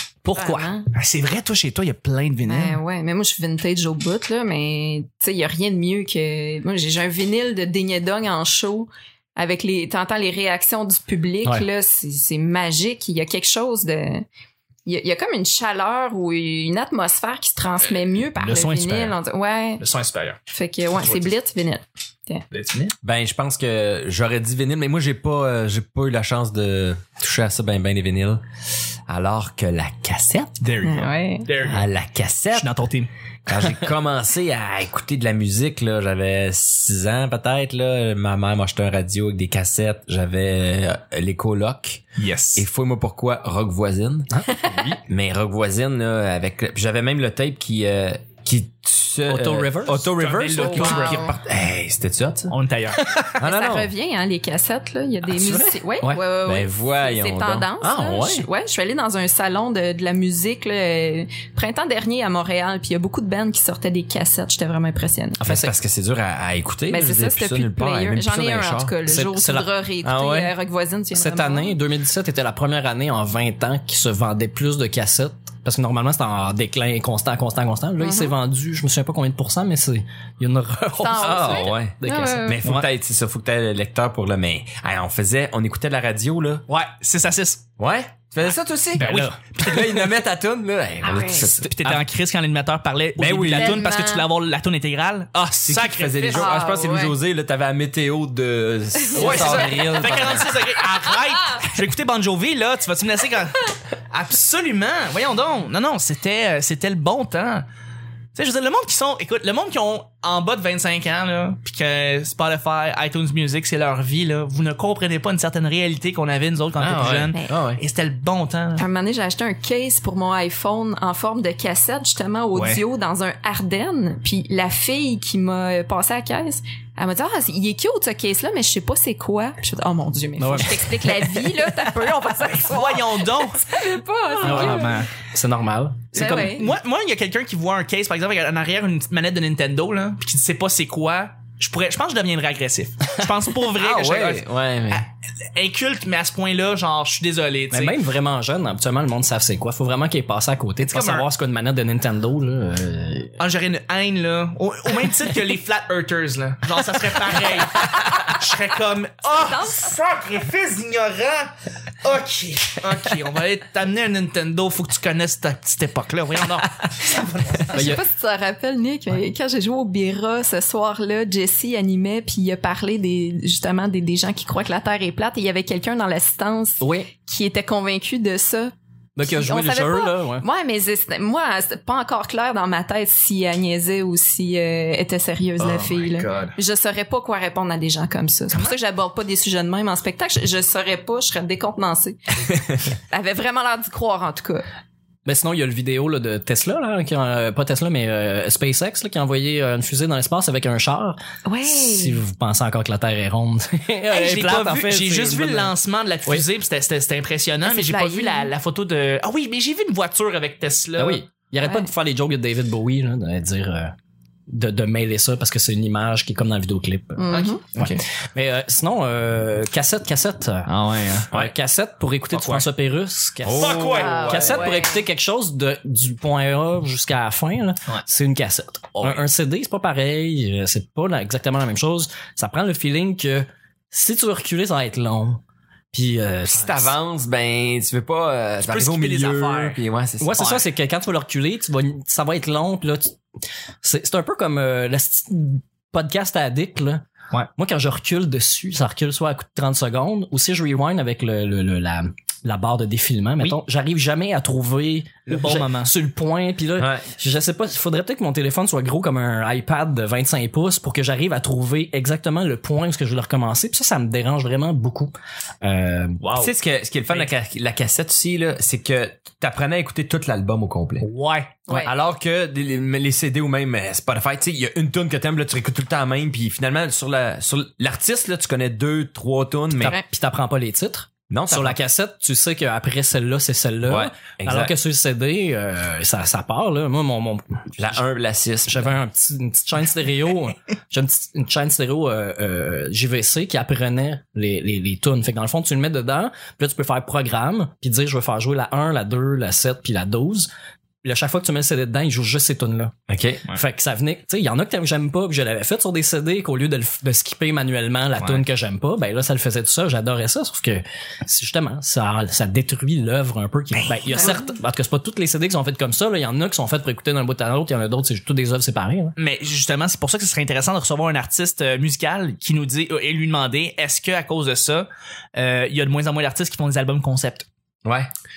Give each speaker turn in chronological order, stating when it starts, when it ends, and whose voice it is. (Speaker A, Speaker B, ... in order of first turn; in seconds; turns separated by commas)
Speaker A: 0.2-0.7, Speaker B: 0.3-0.9, Speaker C: 0.9-2.8, Speaker B: 2.5-14.3, Speaker B: 14.9-19.8, Speaker C: 18.3-19.2, Speaker C: 19.8-20.4, Speaker B: 20.5-22.4, Speaker C: 20.9-21.3, Speaker C: 22.5-22.9, Speaker D: 23.0-28.4, Speaker D: 29.1-30.6, Speaker C: 30.6-31.9, Speaker B: 30.8-31.5, Speaker D: 31.6-32.7, Speaker C: 32.5-33.1, Speaker D: 33.5-42.0, Speaker C: 42.2-42.6, Speaker D: 42.6-44.3, Speaker A: 44.3-44.6, Speaker D: 45.0-53.9, Speaker A: 49.3-50.1, Speaker C: 50.2-51.4, Speaker B: 50.6-51.3, Speaker C: 52.5-53.1, Speaker B: 53.4-65.4, Speaker A: 55.4-56.2, Speaker D: 56.5-58.5, Speaker A: 65.4-65.7, Speaker D: 65.4-69.0, Speaker B: 66.9-71.8, Speaker A: 69.1-69.7, Speaker D: 70.0-70.5, Speaker A: 71.1-82.5, Speaker B: 78.0-78.3, Speaker B: 81.0-82.6, Speaker D: 81.2-86.6, Speaker C: 86.7-87.6, Speaker D: 87.8-91.8, Speaker C: 89.0-90.1, Speaker A: 89.0-89.3, Speaker B: 91.0-91.5, Speaker C: 91.4-96.5, Speaker A: 91.7-92.0, Speaker D: 93.2-93.8, Speaker B: 93.5-94.3, Speaker D: 95.6-100.6, Speaker B: 96.3-97.2, Speaker B: 99.0-100.3, Speaker C: 99.2-107.7, Speaker C: 108.3-118.8, Speaker D: 116.8-117.8, Speaker B: 118.8-135.0, Speaker C: 122.5-122.8, Speaker A: 130.4-131.3, Speaker C: 132.5-133.7, Speaker C: 134.4-135.1, Speaker A: 134.4-136.6, Speaker B: 136.1-136.7, Speaker C: 136.1-148.0, Speaker D: 143.8-145.1, Speaker A: 147.7-153.4, Speaker C: 150.8-151.3, Speaker C: 153.4-167.9, Speaker B: 159.4-159.9, Speaker B: 167.7-178.7, Speaker A: 167.7-168.0, Speaker A: 176.8-177.1, Speaker A: 179.2-180.4, Speaker B: 179.2-192.2, Speaker C: 185.7-186.6, Speaker B: 193.1-194.7, Speaker A: 195.3-205.7, Speaker B: 201.5-202.2, Speaker C: 204.1-211.2, Speaker B: 207.7-208.5, Speaker A: 211.0-213.9, Speaker B: 211.6-211.9, Speaker A: 214.5-220.7, Speaker B: 217.2-217.6, Speaker C: 217.3-218.0, Speaker C: 220.7-221.3, Speaker A: 221.3-235.4, Speaker C: 222.3-222.7, Speaker D: 223.4-224.6, Speaker C: 223.6-224.4, Speaker B: 223.9-225.0, Speaker A: 235.9-236.9, Speaker D: 236.5-240.5, Speaker C: 238.6-239.8, Speaker A: 240.2-243.2, Speaker C: 240.4-240.6, Speaker A: 243.8-247.0, Speaker A: 247.6-266.3, Speaker C: 255.3-255.9, Speaker D: 256.8-257.1, Speaker C: 266.2-266.5, Speaker D: 266.4-271.1, Speaker C: 271.0-271.6, Speaker B: 271.7-271.9, Speaker D: 271.7-280.0, Speaker A: 279.8-288.0, Speaker D: 281.3-281.8, Speaker D: 283.9-284.7, Speaker D: 287.8-288.9, Speaker A: 288.7-300.5, Speaker A: 301.0-302.9, Speaker D: 303.1-303.5, Speaker A: 303.5-319.1, Speaker C: 313.7-314.4, Speaker C: 319.2-327.5, Speaker D: 327.9-328.1